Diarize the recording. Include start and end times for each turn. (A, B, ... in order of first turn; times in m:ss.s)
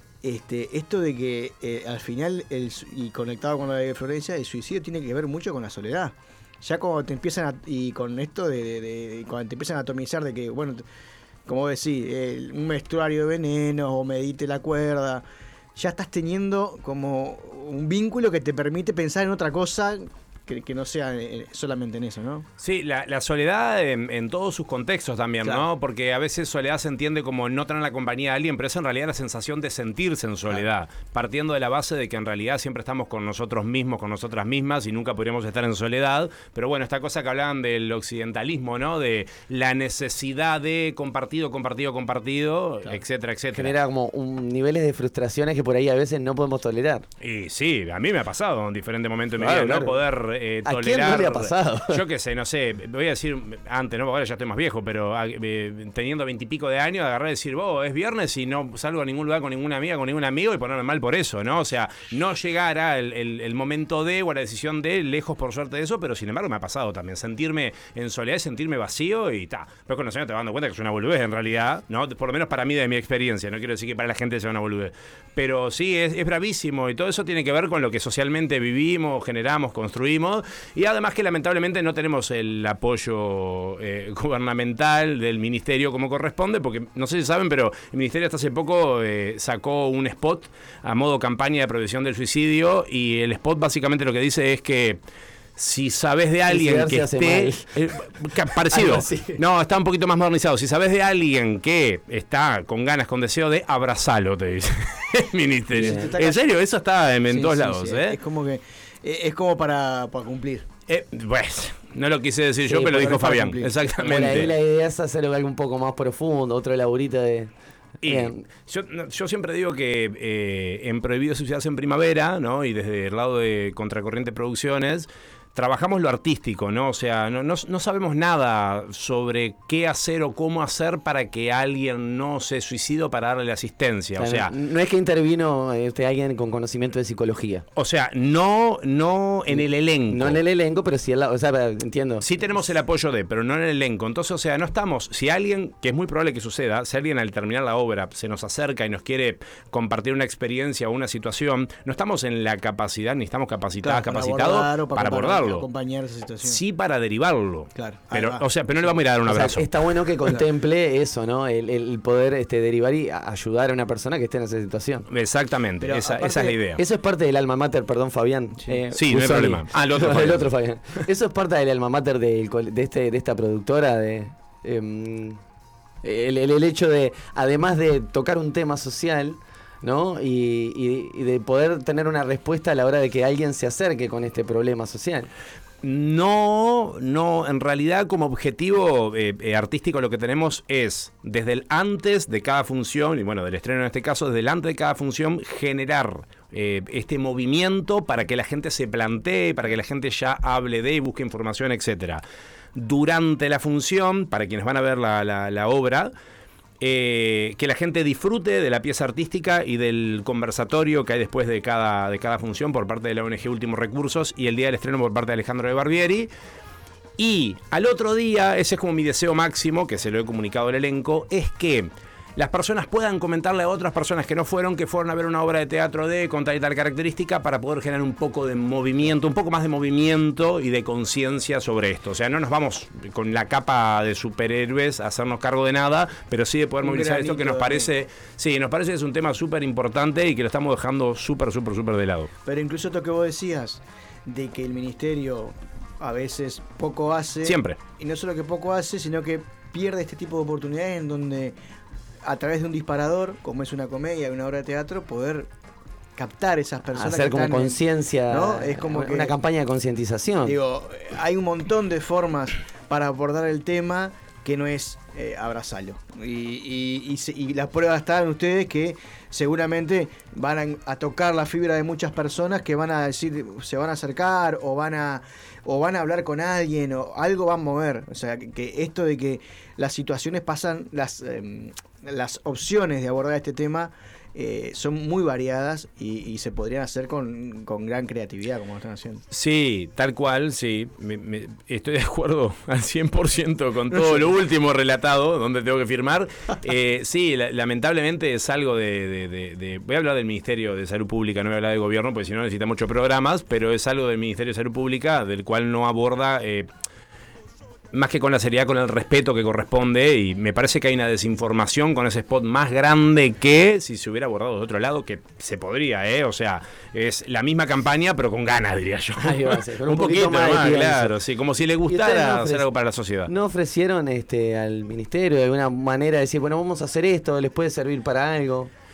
0:00.2-0:10.8 A
0:11.4-0:15.2 A
0:15.8-0:22.5 A
0:22.6-0:43.7 B
0:43.5-0:47.0 C
0:47.2-1:35.0 B
0:49.4-0:50.0 C
0:50.6-0:52.0 C
1:35.6-1:48.2 B
1:36.5-1:37.8 C
1:38.7-1:39.4 C
1:45.7-1:46.4 A
1:45.8-1:46.1 C
1:47.3-1:50.6 A
1:50.9-1:54.5 B
1:52.7-1:53.8 A
1:54.0-1:57.5 C
1:58.0-2:14.5 B
1:58.0-1:58.4 C
2:14.2-2:17.6 C
2:17.8-2:20.4 B
2:19.5-2:22.2 C
2:22.2-2:35.6 B
2:33.8-2:36.6 A
2:36.4-2:39.7 B
2:37.7-2:39.0 A
2:39.2-2:45.0 C
2:45.1-2:46.8 B
2:45.8-2:46.6 A
2:46.8-2:55.4 C
2:48.9-2:50.5 B
2:56.0-3:05.3 C
3:05.8-3:22.2 B
3:22.7-3:26.1 B
3:26.8-3:36.3 B
3:37.2-4:02.3 B
3:56.8-3:57.9 A
4:02.4-4:11.6 A
4:07.4-4:07.8 B
4:12.2-4:15.5 A
4:16.2-4:19.3 A
4:16.9-4:20.6 C
4:20.4-4:49.2 A
4:49.3-5:06.7 B
5:07.9-5:23.3 B
5:19.2-5:21.2 C
5:21.8-5:22.7 C
5:23.2-5:28.7 C